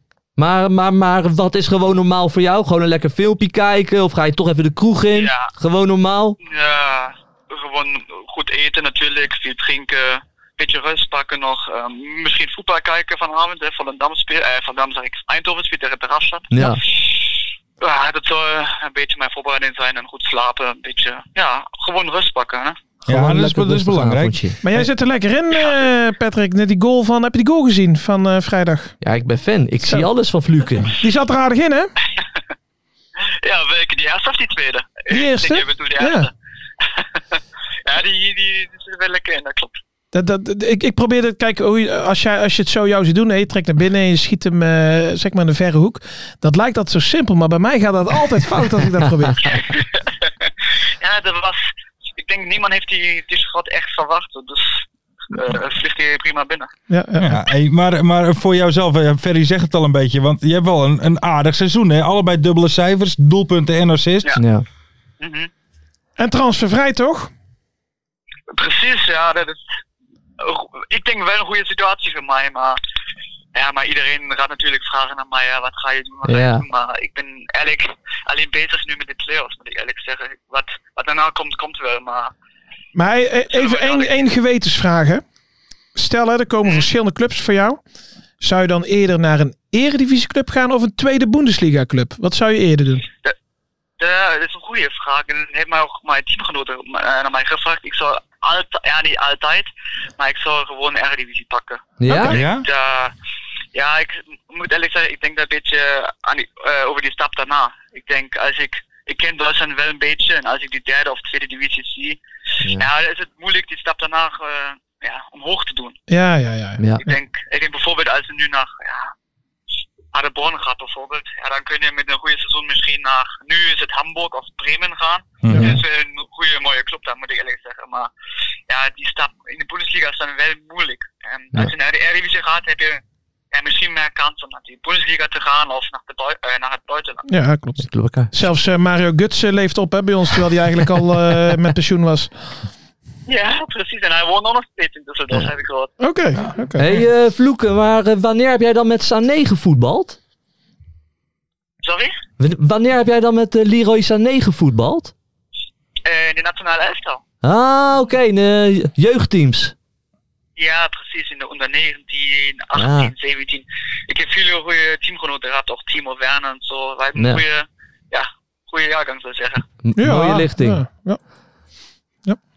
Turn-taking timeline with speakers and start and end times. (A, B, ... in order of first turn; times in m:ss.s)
0:00.4-0:06.4 A
0:05.1-0:05.5 B
0:06.4-0:22.8 B
0:16.5-0:16.8 A
0:23.1-0:24.6 A
0:23.1-0:24.9 C
0:24.6-0:28.9 D
0:29.0-0:30.9 A
0:29.8-0:30.1 D
0:31.0-0:31.9 D
0:33.4-0:36.3 B
0:35.1-0:36.3 D
0:36.9-0:37.2 B
0:37.8-0:39.8 B
0:40.1-0:49.7 D
0:49.4-0:50.5 B
0:51.0-0:51.6 B
0:52.2-0:56.7 B
0:56.9-0:57.3 D
0:57.2-1:04.4 C
1:04.4-1:04.6 A
1:05.2-1:05.5 B
1:06.2-1:07.3 D
1:08.5-1:09.6 B
1:10.4-1:12.8 B
1:13.6-1:22.3 B
1:16.2-1:16.6 A
1:23.0-1:25.2 D
1:23.5-1:24.3 B
1:26.0-1:27.8 D
1:28.4-1:33.1 D
1:34.0-1:43.1 B
1:42.0-1:42.4 A
1:42.1-1:42.3 D
1:42.3-1:42.7 C
1:43.7-1:52.2 B
1:52.7-1:56.0 B
1:56.1-1:57.2 D
1:57.0-1:59.1 B
2:00.1-2:08.1 B
2:05.4-2:05.8 C
2:05.5-2:05.8 D
2:08.7-2:13.0 B
2:13.5-2:17.3 B
2:17.3-2:22.3 D
2:17.8-2:18.3 A
2:23.3-2:25.9 B
2:26.0-2:27.0 D
2:26.8-2:30.2 A
2:31.8-2:32.1 B
2:32.4-2:35.1 A
2:36.0-2:37.2 B
2:37.4-2:39.7 A
2:40.6-2:49.7 B
2:42.8-2:43.1 A
2:47.2-2:47.4 A
2:49.8-2:50.8 A
2:50.0-2:51.2 D